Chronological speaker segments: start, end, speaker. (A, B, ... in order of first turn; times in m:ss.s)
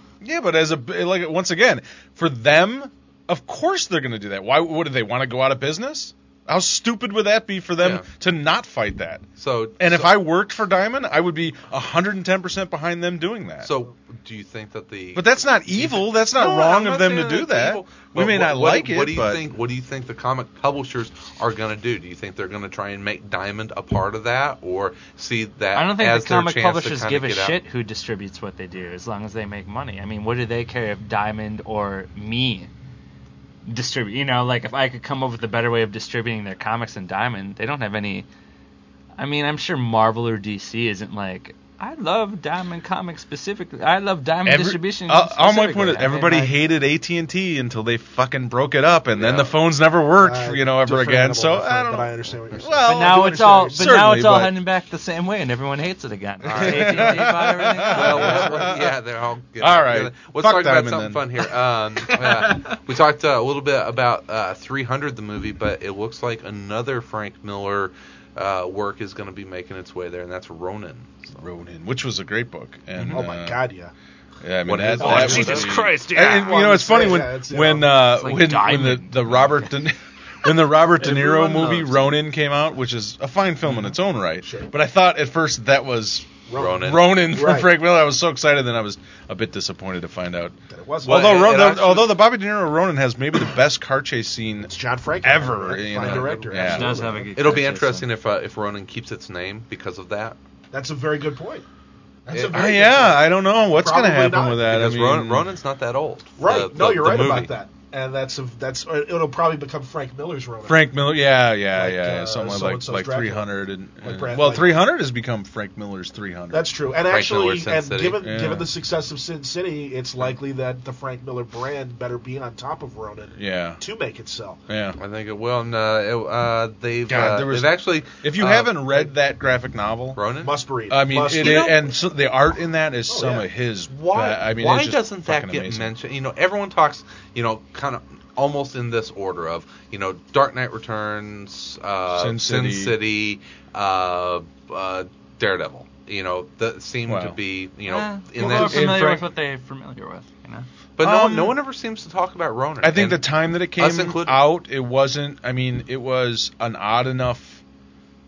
0:00.2-0:09.3 A
0:07.8-0:08.1 B
0:09.4-0:10.2 B
0:09.8-0:13.7 A
0:13.6-0:27.6 B
0:15.2-0:19.4 A
0:25.7-0:32.7 C
0:33.7-0:38.3 C
0:39.2-0:46.5 C
0:44.4-0:54.6 A
0:49.1-0:49.6 B
0:50.1-0:53.9 D
0:52.8-0:58.6 C
0:56.4-0:57.3 B
0:56.5-0:59.0 A
0:57.9-1:11.4 B
0:59.6-1:01.4 A
1:02.1-1:02.8 C
1:11.4-1:13.6 A
1:13.1-1:13.9 D
1:14.4-1:37.2 A
1:14.6-1:15.8 B
1:15.0-1:16.7 C
1:16.2-1:18.0 D
1:18.1-1:19.7 C
1:21.0-1:21.9 D
1:24.4-1:24.7 D
1:26.5-1:27.7 D
1:26.6-1:27.1 B
1:30.7-1:31.4 D
1:31.0-1:32.2 B
1:34.6-1:37.6 D
1:36.0-1:36.4 B
1:36.6-1:38.1 C
1:37.4-1:40.4 B
1:40.7-1:41.7 D
1:42.3-1:44.7 D
1:42.3-1:45.5 A
1:44.7-1:47.5 B
1:46.4-1:51.1 D
1:50.6-1:56.7 A
1:51.7-1:53.5 D
1:54.0-1:54.9 D
1:56.5-2:04.6 D
1:57.1-1:58.2 B
1:58.2-1:58.7 A
2:03.4-2:03.8 A
2:04.7-2:05.0 A
2:05.0-2:09.1 B
2:07.1-2:10.2 A
2:10.2-2:10.5 B
2:10.4-2:11.9 D
2:10.9-2:15.9 A
2:11.3-2:11.9 B
2:13.1-2:13.5 D
2:13.9-2:29.1 B
2:22.1-2:23.0 A
2:27.1-2:27.4 A
2:27.9-2:30.7 C
2:28.4-2:29.3 A
2:31.0-2:34.4 B
2:31.0-2:31.6 A
2:32.8-2:37.6 A